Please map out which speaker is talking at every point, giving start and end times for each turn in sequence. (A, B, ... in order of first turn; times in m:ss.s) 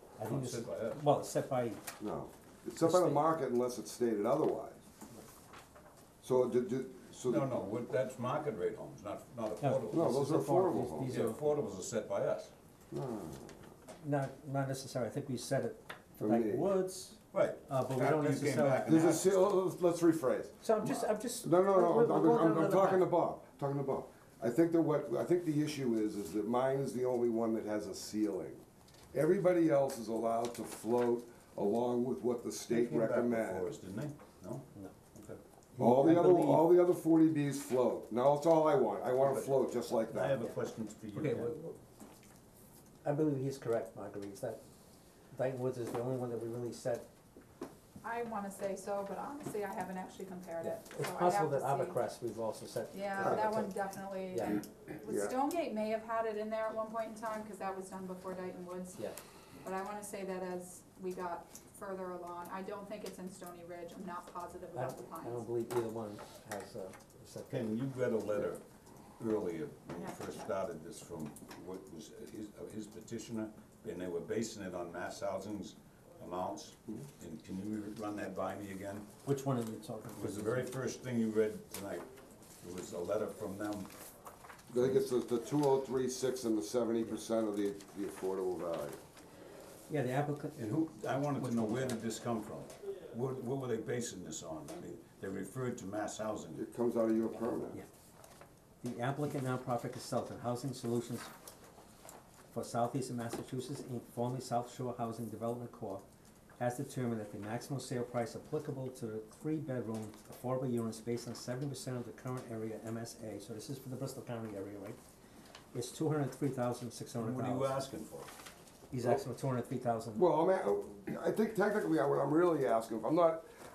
0:00.2-0:01.8 A
0:00.2-0:01.1 B
0:02.0-0:04.8 C
0:02.8-0:03.2 A
0:06.2-0:07.5 C
0:07.3-0:10.1 B
0:09.6-0:11.4 A
0:09.9-0:11.2 C
0:11.1-0:12.5 B
0:12.9-0:13.7 C
0:14.0-0:19.0 A
0:16.2-0:16.7 C
0:17.3-0:19.5 B
0:18.8-0:20.6 C
0:20.6-0:23.1 A
0:20.8-0:21.1 B
0:21.4-0:28.6 C
0:29.1-0:33.7 C
0:32.7-0:35.4 B
0:35.7-0:36.7 A
0:35.8-0:40.4 C
0:39.2-0:41.6 B
0:41.2-0:41.8 A
0:43.0-0:44.6 A
0:45.3-0:47.1 A
0:48.0-0:52.0 D
0:50.6-0:53.8 A
0:52.9-0:59.1 D
0:53.2-0:53.6 C
0:54.3-0:54.6 A
0:55.1-0:55.4 C
0:59.6-1:05.4 D
1:04.8-1:07.7 A
1:07.5-1:08.6 B
1:09.2-1:19.1 B
1:19.2-1:20.7 A
1:20.2-1:22.1 B
1:22.6-1:23.9 B
1:24.7-1:29.0 C
1:29.9-1:30.8 A
1:30.6-1:36.6 B
1:31.4-1:32.0 A
1:36.6-1:37.8 C
1:38.8-1:41.3 A
1:42.5-1:46.1 A
1:46.6-1:55.0 A
1:55.7-1:57.8 A
1:57.2-1:58.3 B
1:58.9-2:00.2 A
2:00.2-2:03.4 C